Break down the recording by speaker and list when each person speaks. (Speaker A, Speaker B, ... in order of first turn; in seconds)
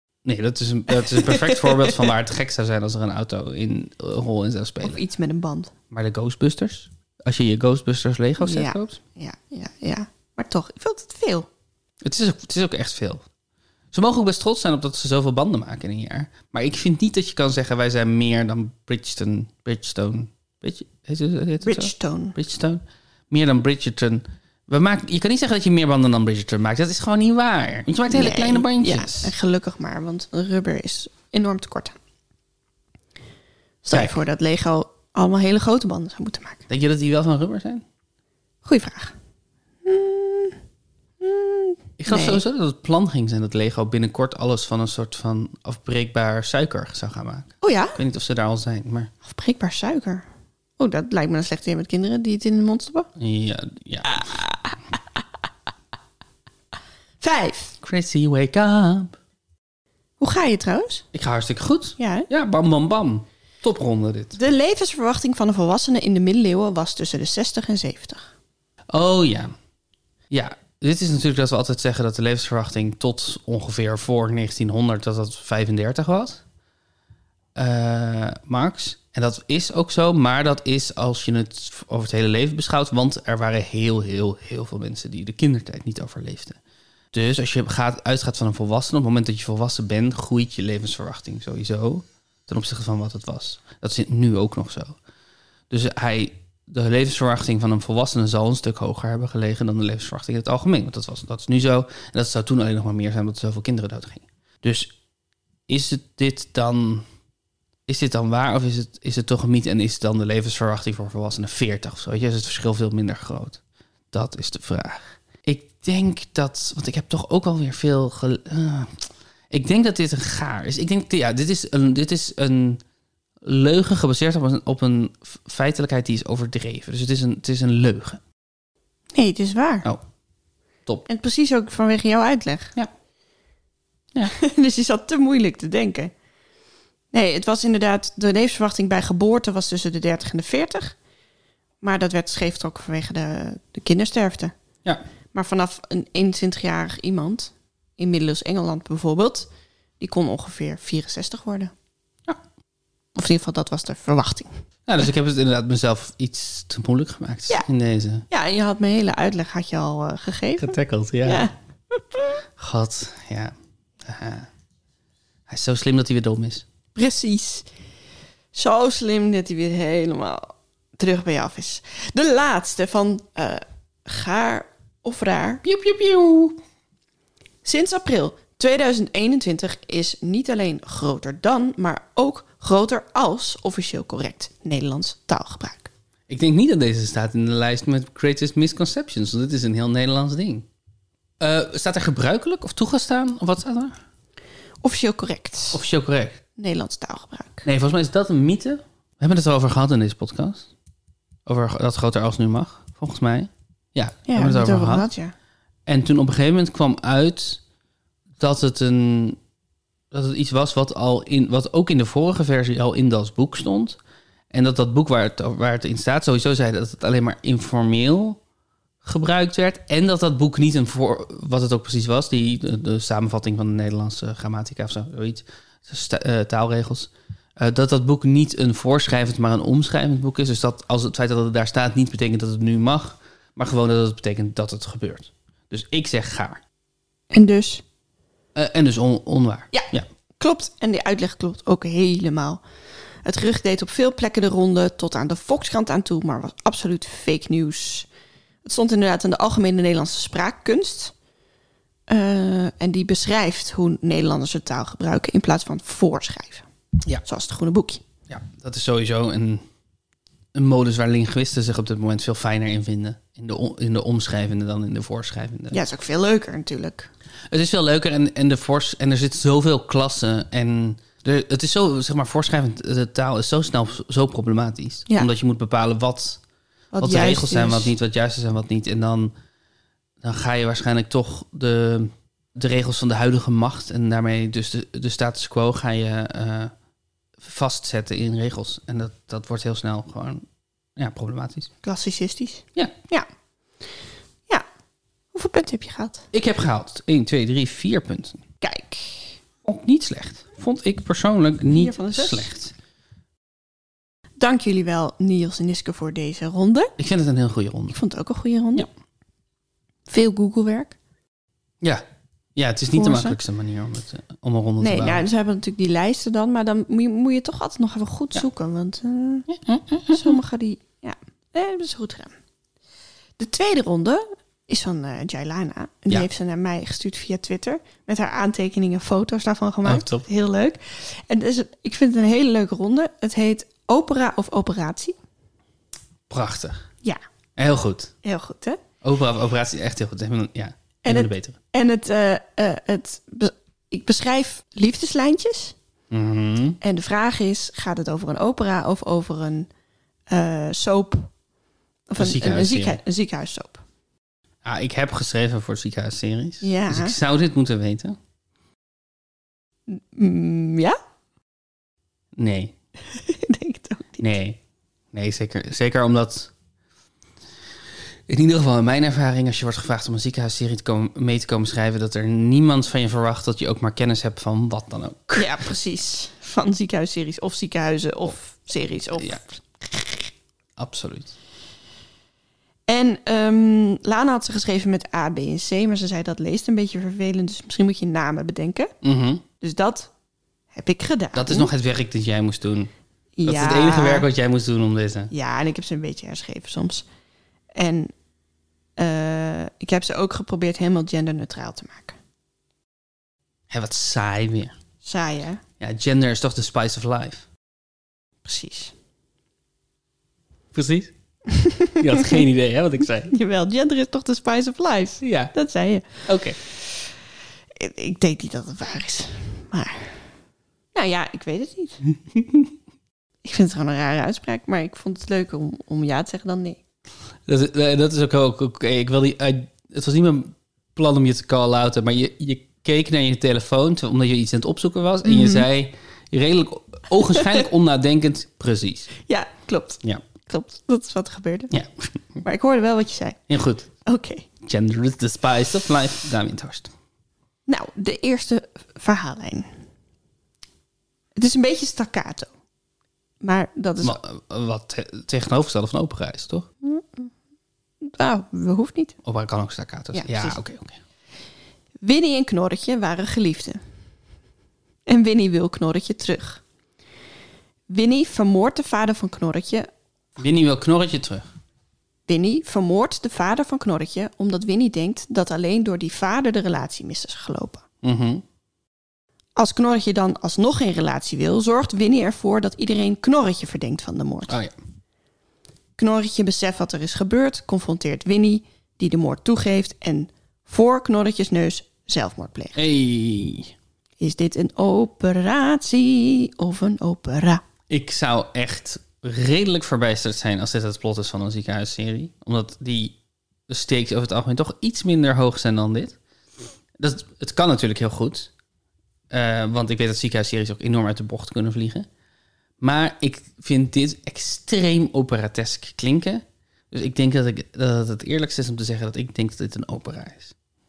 Speaker A: 0.2-5.0, 5.9-9.0, 12.0-13.2, 13.9-29.3, 36.7-37.8, 42.0-49.1, 53.2-54.4, 57.8-59.2, 61.1-64.4, 68.9-69.5, 70.3-76.4, 77.5-86.6, 87.1-95.0, 95.7-104.9, 105.7-107.0, 107.9-113.6, 114.1-119.0, 119.5-122.8, 123.4-128.2, 154.9-158.3, 160.6-161.5, 162.6-164.5, 165.5-166.7, 175.6-176.6, 186.3-190.7, 191.4-194.0, 195.7-196.4, 197.6-200.7, 201.5-205.1, 205.9-207.6, 208.4-209.4, 210.1-214.0, 214.5-218.4, 219.0-236.6, 238.6-240.1, 258.3-259.6, 260.5-265.8, 267.5-276.4, 277.0-279.3, 280.2-286.7, 287.4-290.4, 291.0-291.7, 296.3-298.4, 299.6-302.7, 307.0-308.0, 312.6-315.2, 319.5-320.4, 329.9-330.3, 336.3-336.9, 337.6-338.1, 339.0-341.6, 346.1-346.8, 352.2-353.0, 354.6-358.2, 362.4-362.8, 364.2-364.6, 365.1-366.5, 368.3-375.5, 380.8-381.3, 389.0-389.4, 391.4-392.9, 393.4-395.3, 403.7-404.8, 405.8-407.5, 410.7-411.1, 412.0-413.3, 415.2-415.5, 416.3-416.6, 422.4-422.7, 427.5-439.1, 441.7-442.4, 443.5-443.9, 444.6-446.9, 454.0-456.7, 459.2-461.0, 470.4-471.4, 478.0-478.4, 484.5-484.7, 492.8-493.7, 497.9-503.2, 503.7-506.2, 507.0-508.5, 509.3-512.1, 512.8-520.5
Speaker B: 0.9-2.1, 4.8-5.7, 8.4-11.5, 21.6-22.4, 28.1-32.0, 33.8-36.6, 38.6-39.1, 39.8-40.6, 41.2-42.4, 47.6-48.0, 49.2-50.3, 50.8-53.1, 54.1-54.8, 57.2-57.8, 60.2-61.0, 62.0-62.3, 64.4-68.2, 129.1-129.9, 131.1-132.7, 134.3-136.1, 137.1-141.0, 141.8-144.5, 145.3-149.5, 150.0-151.7, 153.2-154.5, 158.3-162.4, 166.9-167.7, 168.5-175.6, 177.6-185.9, 194.8-195.8, 196.6-197.7, 204.3-205.3, 237.3-237.8, 239.7-242.6, 243.2-248.1, 248.7-251.1, 252.1-256.7, 257.2-258.0, 265.7-267.1, 276.9-277.9, 291.8-293.3, 295.3-296.2, 298.6-299.4, 301.7-302.5, 304.4-306.9, 307.9-308.9, 310.1-311.0, 312.9-313.4, 314.8-319.5, 320.1-322.4, 323.4-335.1, 338.2-338.8, 341.1-345.8, 346.8-349.7, 350.3-351.3, 352.1-353.8, 356.6-357.2, 359.9-361.0, 363.1-364.2, 375.4-380.3, 382.9-388.9, 389.6-390.1, 390.7-391.7, 393.4-394.3, 395.3-397.1, 397.8-398.1, 399.0-402.2, 405.0-405.6, 408.4-408.9, 411.5-412.4, 413.3-416.3, 417.8-420.2, 420.9-422.0, 423.4-426.8, 435.2-435.7, 437.4-437.6, 439.3-441.7, 442.4-443.4, 444.1-444.5, 447.7-449.7, 451.4-452.5, 453.4-454.2, 456.8-457.3, 458.0-459.2, 460.1-460.6, 462.0-463.8, 465.1-466.6, 467.9-469.9, 472.3-477.8, 479.6-484.6, 486.0-492.8, 494.2-497.6